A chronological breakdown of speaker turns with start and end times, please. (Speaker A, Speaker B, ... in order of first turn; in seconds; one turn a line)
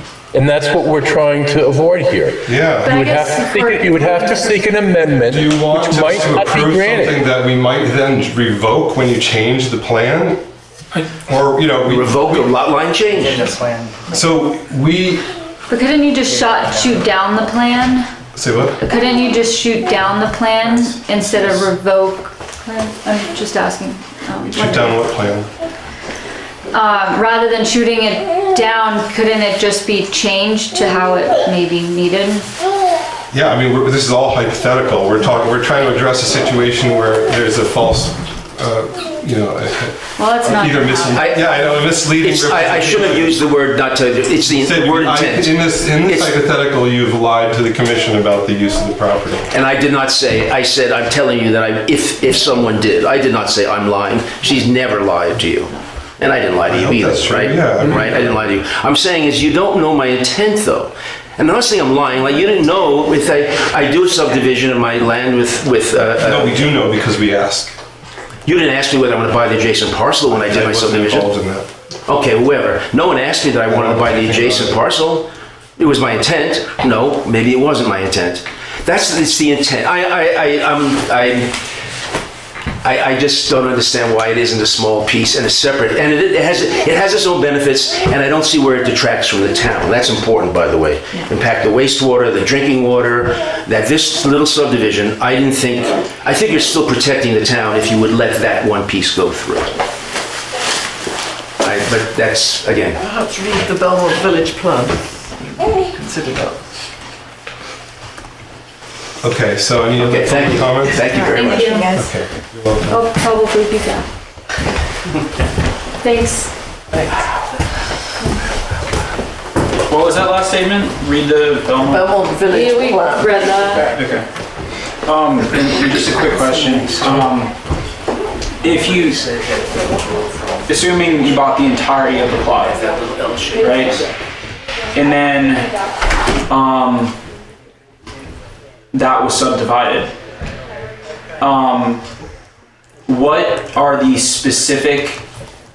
Speaker A: 0.3-7.2
Speaker B: 2.5-3.1
Speaker C: 2.8-4.7
Speaker B: 5.3-10.4
Speaker B: 11.2-12.5
Speaker D: 11.8-13.6
Speaker E: 13.2-14.0
Speaker B: 14.1-15.2
Speaker C: 15.7-18.1
Speaker B: 18.3-18.8
Speaker C: 18.8-25.1
Speaker B: 21.2-21.7
Speaker B: 24.5-25.5
Speaker C: 26.7-32.5
Speaker B: 33.3-43.4
Speaker C: 40.2-41.9
Speaker D: 41.1-41.5
Speaker D: 42.0-46.3
Speaker B: 44.5-49.5
Speaker D: 49.5-66.7
Speaker B: 56.7-58.4
Speaker B: 66.2-67.8
Speaker D: 68.5-71.3
Speaker B: 70.3-71.7
Speaker D: 72.1-81.6
Speaker B: 73.7-74.8
Speaker D: 82.8-99.7
Speaker D: 101.6-103.0
Speaker E: 103.7-104.6
Speaker E: 106.0-106.5
Speaker B: 109.2-111.2
Speaker D: 110.0-112.0
Speaker C: 111.2-112.0
Speaker B: 111.9-113.0
Speaker C: 112.8-114.0
Speaker C: 116.0-116.5
Speaker F: 119.9-122.2
Speaker E: 121.9-123.5
Speaker C: 122.5-124.0
Speaker F: 123.9-124.3
Speaker F: 125.0-127.5
Speaker F: 128.6-129.2
Speaker F: 130.7-132.8
Speaker F: 133.6-134.0
Speaker F: 134.9-135.7
Speaker F: 136.5-137.2
Speaker F: 138.9-140.1
Speaker F: 141.4-142.0
Speaker F: 143.1-145.2